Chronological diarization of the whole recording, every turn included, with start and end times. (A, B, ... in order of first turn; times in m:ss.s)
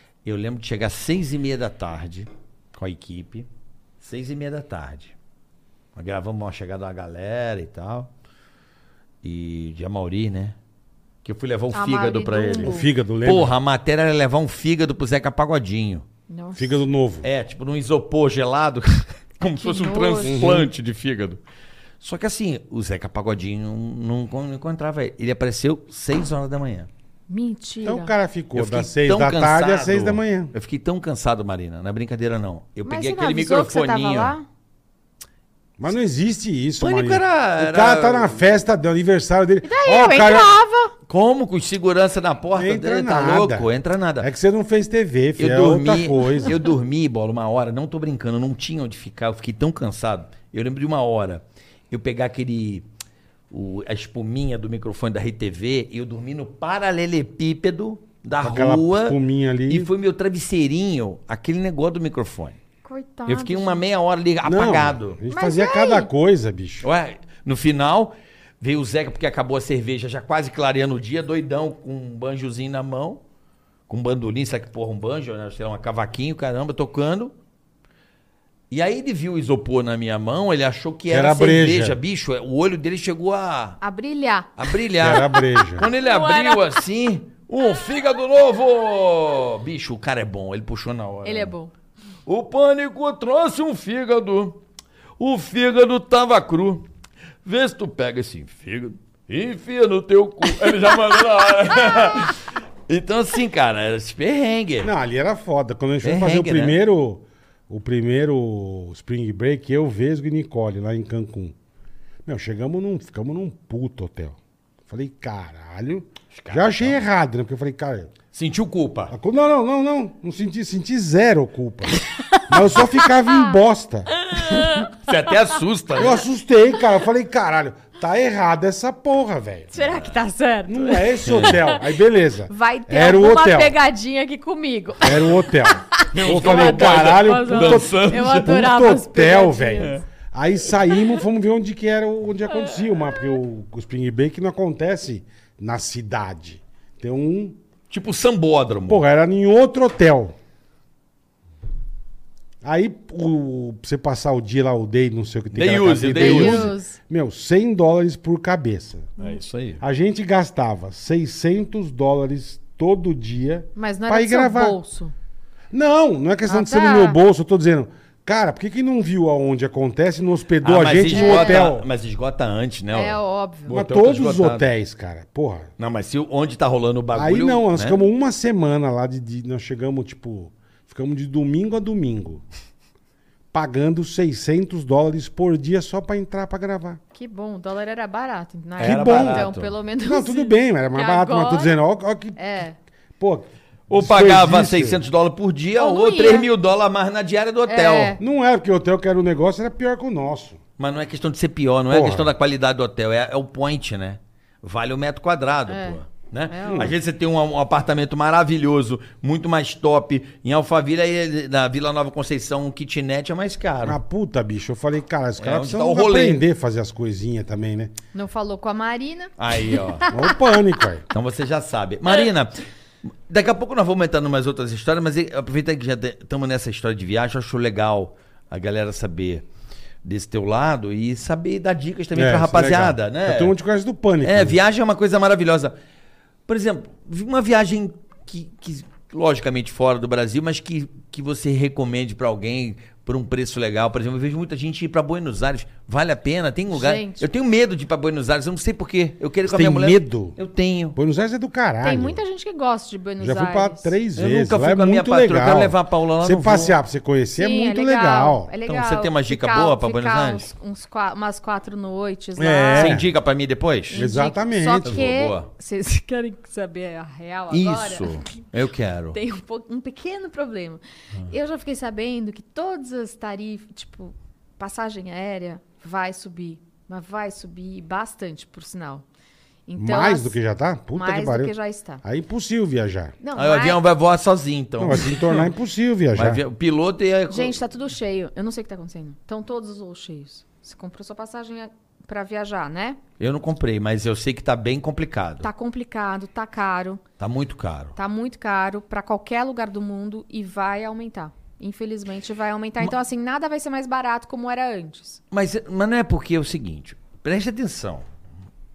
0:00.2-0:03.5 A
0:04.0-0:05.1 A
0:05.9-0:08.1 A
0:09.2-0:10.6 A
0:11.2-0:16.1 A
0:11.7-0:12.9 B
0:12.6-0:13.5 C
0:16.3-0:16.8 B
0:16.6-0:17.3 C
0:17.2-0:21.4 A
0:19.6-0:20.4 B
0:20.2-0:20.7 C
0:22.0-0:26.9 A
0:27.3-0:28.1 B
0:27.8-0:30.5 C
0:28.6-0:34.4 A
0:32.8-0:34.5 B
0:35.8-0:40.5 C
0:36.8-0:38.6 A
0:39.6-0:40.9 B
0:41.1-0:44.3 A
0:42.6-0:43.7 C
0:44.2-0:46.6 C
0:45.4-0:52.9 A
0:53.5-1:02.6 A
0:58.4-0:59.9 C
1:02.8-1:03.8 B
1:03.3-1:05.2 A
1:04.4-1:06.9 C
1:05.3-1:06.1 B
1:06.8-1:13.2 A
1:13.9-1:17.3 A
1:18.7-1:23.8 A
1:21.1-1:22.0 C
1:23.8-1:26.8 B
1:24.6-1:31.5 A
1:25.0-1:25.9 C
1:31.2-1:31.7 B
1:32.3-1:34.6 A
1:35.2-1:36.8 A
1:37.4-1:44.9 A
1:44.8-1:51.6 C
1:46.0-1:46.8 A
1:52.3-1:58.1 C
1:56.3-1:57.0 A
1:58.3-1:59.1 A
1:59.1-2:02.0 C
2:02.4-2:03.6 B
2:02.5-2:04.1 C
2:04.2-2:04.9 B
2:04.5-2:06.2 A
2:06.0-2:09.7 C
2:09.7-2:11.8 B
2:09.7-2:10.1 A
2:10.7-2:13.8 C
2:11.3-2:11.6 A
2:12.5-2:20.0 B
2:15.0-2:27.6 C
2:16.1-2:18.6 A
2:27.9-2:29.0 A
2:28.9-2:30.4 C
2:32.6-2:39.2 C
2:35.5-2:36.7 A
2:36.1-2:37.0 B
2:39.2-2:39.8 A
2:39.8-2:44.8 C
2:43.8-2:45.1 B
2:45.7-2:51.9 C
2:46.5-2:47.2 B
2:50.6-2:54.7 A
2:51.1-2:51.7 B
2:52.9-2:53.8 B
2:53.7-2:55.7 C
2:55.8-2:58.0 A
2:57.1-3:02.4 C
3:03.5-3:07.0 C
3:07.1-3:11.8 B
3:08.8-3:09.5 C
3:08.8-3:09.7 A
3:10.0-3:12.4 C
3:12.4-3:12.8 B
3:13.2-3:15.0 C
3:13.9-3:18.2 A
3:15.8-3:16.5 B
3:17.7-3:18.2 B
3:18.2-3:20.6 C
3:20.8-3:34.0 A
3:21.9-3:22.3 C
3:25.7-3:26.9 B
3:26.7-3:26.9 C
3:33.8-3:37.9 C
3:35.4-3:36.4 A
3:38.1-3:40.4 B
3:39.4-3:40.1 A
3:40.1-3:41.0 C
3:41.1-3:49.4 A
3:50.0-3:53.5 A
3:52.1-3:54.6 C
3:54.2-3:55.8 A
3:56.5-4:11.0 A
4:06.7-4:07.3 B
4:09.5-4:10.4 C
4:11.0-4:12.2 C
4:11.8-4:14.0 B
4:13.2-4:18.5 C
4:14.1-4:16.8 A
4:17.4-4:23.0 B
4:18.6-4:20.5 A
4:22.4-4:23.1 C
4:22.8-4:24.1 A
4:23.9-4:28.4 B
4:23.9-4:25.1 C
4:24.8-4:25.5 A
4:27.5-4:29.2 A
4:29.1-4:39.0 B
4:39.6-4:40.4 B
4:39.8-4:43.1 C
4:40.9-4:42.0 B
4:43.2-4:43.8 B
4:43.4-4:45.5 A
4:44.8-4:46.4 C
4:46.1-4:47.6 A
4:47.3-4:53.0 B
4:53.2-4:55.5 A
4:55.4-4:57.0 B
4:57.2-4:57.9 A
4:58.0-5:05.2 B
5:05.3-5:08.1 A